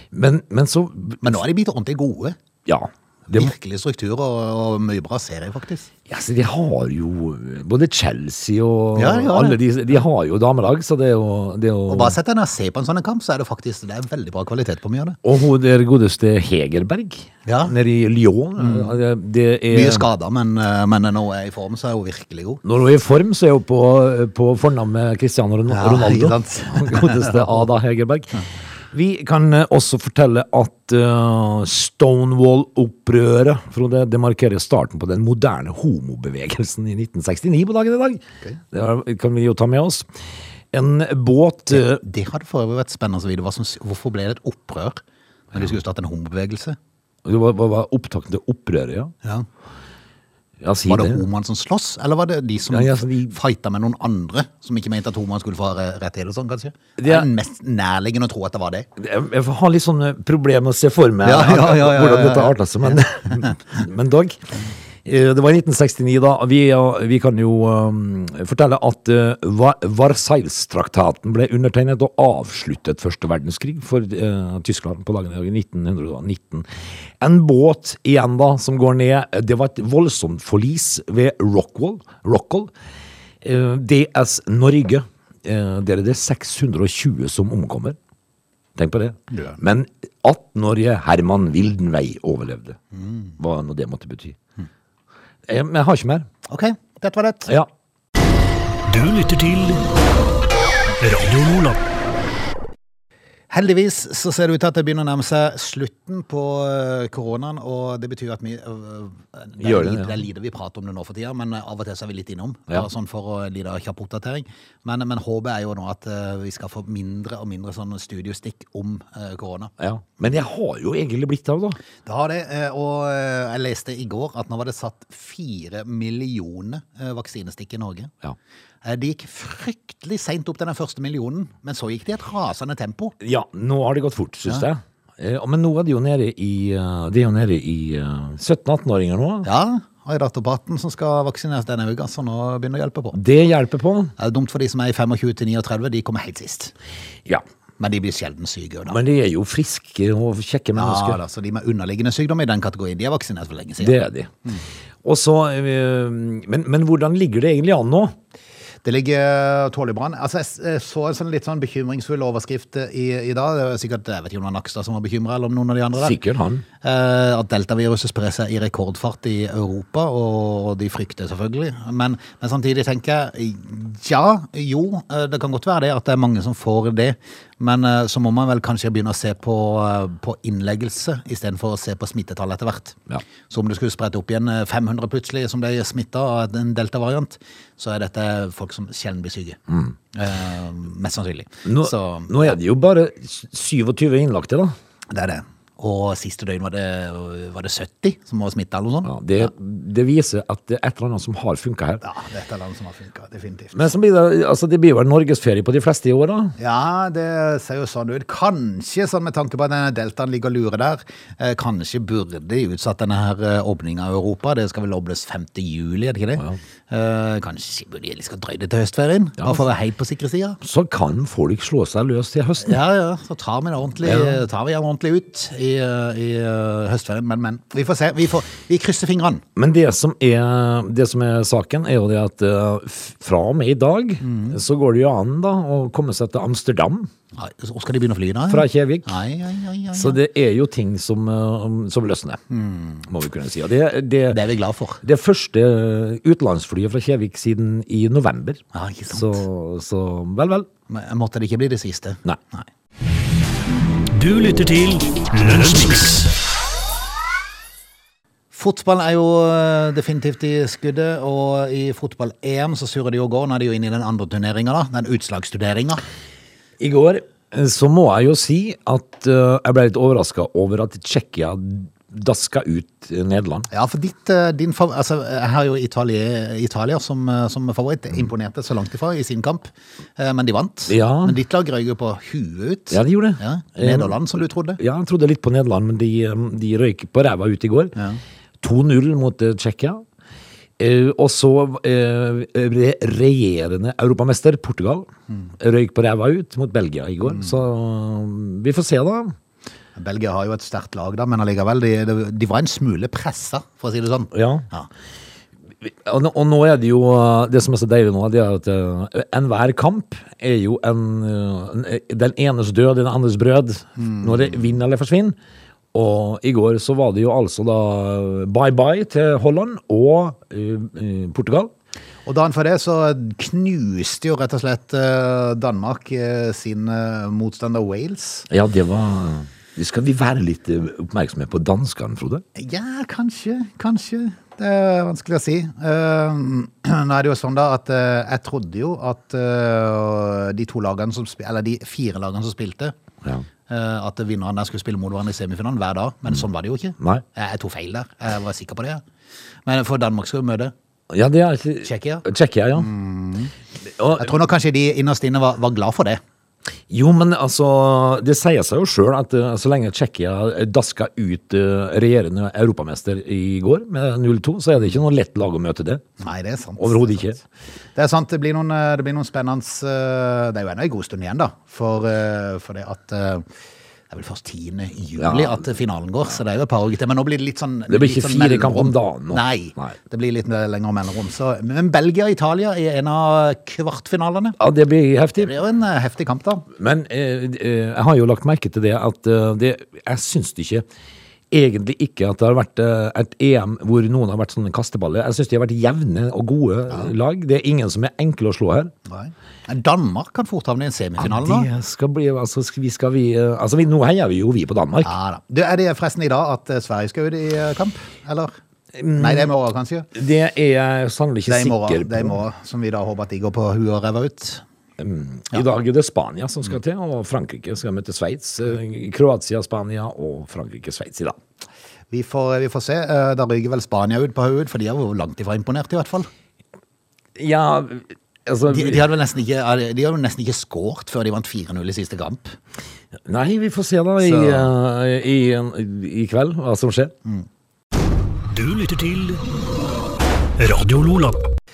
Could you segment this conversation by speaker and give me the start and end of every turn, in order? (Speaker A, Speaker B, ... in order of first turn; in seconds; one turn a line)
Speaker A: 0.1-1.3
Speaker B: 1.2-2.4
Speaker A: 2.7-3.5
Speaker B: 3.3-5.9
Speaker A: 6.1-12.2
Speaker B: 8.9-9.6
Speaker B: 11.9-15.2
Speaker A: 15.2-20.1
Speaker B: 17.5-17.8
Speaker B: 18.6-19.0
Speaker B: 19.7-22.6
Speaker A: 22.6-40.1
Speaker B: 25.7-27.6
Speaker A: 40.7-42.0
Speaker B: 41.7-45.0
Speaker B: 45.5-46.8
Speaker A: 47.2-49.1
Speaker A: 50.6-51.2
Speaker B: 50.9-58.9
Speaker A: 52.7-53.4
Speaker A: 57.0-57.3
Speaker A: 59.0-76.7
Speaker B: 61.2-63.5
Speaker A: 77.2-82.7
Speaker A: 83.4-88.0
Speaker A: 88.8-92.8
Speaker B: 89.3-89.6
Speaker B: 93.0-93.3
Speaker A: 93.4-94.4
Speaker A: 95.5-96.3
Speaker B: 96.5-97.5
Speaker C: 98.9-99.8
Speaker C: 101.0-101.8
Speaker B: 103.5-119.7
Speaker A: 109.6-110.2
Speaker A: 119.8-121.8
Speaker B: 122.0-128.1
Speaker B: 128.8-133.1
Speaker A: 133.2-139.5
Speaker B: 139.4-143.2
Speaker A: 143.1-144.1
Speaker B: 144.2-146.7
Speaker B: 147.8-149.0
Speaker A: 148.9-151.2
Speaker B: 150.8-154.6
Speaker A: 153.8-154.3
Speaker A: 155.0-158.2
Speaker B: 158.8-166.2
Speaker A: 166.0-166.7
Speaker B: 166.8-189.6
Speaker B: 190.1-192.6
Speaker A: 191.7-194.7
Speaker B: 195.1-199.5
Speaker A: 199.1-202.0
Speaker B: 202.0-203.8
Speaker A: 203.7-206.6
Speaker B: 206.6-220.6
Speaker A: 220.6-222.8
Speaker B: 222.6-229.4
Speaker A: 224.0-224.4
Speaker A: 229.6-237.1
Speaker B: 234.2-234.6
Speaker B: 237.3-240.2
Speaker A: 238.5-239.1
Speaker A: 239.9-242.4
Speaker B: 242.5-243.0
Speaker A: 243.1-244.4
Speaker B: 244.3-245.0
Speaker A: 245.0-250.7
Speaker B: 248.7-249.4
Speaker B: 250.9-252.7
Speaker C: 254.1-256.3
Speaker B: 258.5-266.1
Speaker A: 266.8-273.7
Speaker B: 273.7-284.8
Speaker A: 280.9-281.4
Speaker A: 282.9-284.2
Speaker A: 284.8-288.0
Speaker A: 288.6-290.0
Speaker A: 290.8-299.4
Speaker B: 300.0-304.9
Speaker A: 304.3-304.7
Speaker A: 305.8-315.4
Speaker B: 314.0-314.6
Speaker A: 315.9-321.7
Speaker B: 322.2-328.5
Speaker A: 328.5-332.4
Speaker B: 332.6-342.9
Speaker B: 343.7-349.0
Speaker B: 349.7-350.7
Speaker A: 351.1-352.9
Speaker B: 351.8-352.2
Speaker B: 352.8-353.5
Speaker A: 353.8-354.3
Speaker B: 354.1-356.2
Speaker A: 356.9-366.0
Speaker B: 366.2-367.4
Speaker A: 366.8-367.4
Speaker B: 367.9-373.5
Speaker B: 374.1-384.6
Speaker A: 375.2-375.6
Speaker A: 377.9-380.0
Speaker A: 384.6-385.6
Speaker B: 385.4-386.7
Speaker A: 386.7-390.9
Speaker A: 391.5-398.9
Speaker B: 399.1-401.7
Speaker A: 401.2-405.1
Speaker B: 405.0-408.5
Speaker A: 408.9-409.5
Speaker B: 409.1-410.1
Speaker A: 410.1-412.4
Speaker B: 411.5-414.6
Speaker A: 415.0-421.4
Speaker B: 422.1-426.3
Speaker A: 427.4-429.1
Speaker B: 428.7-432.6
Speaker A: 433.2-437.1
Speaker B: 434.2-434.7
Speaker C: 438.5-439.4
Speaker C: 440.6-441.4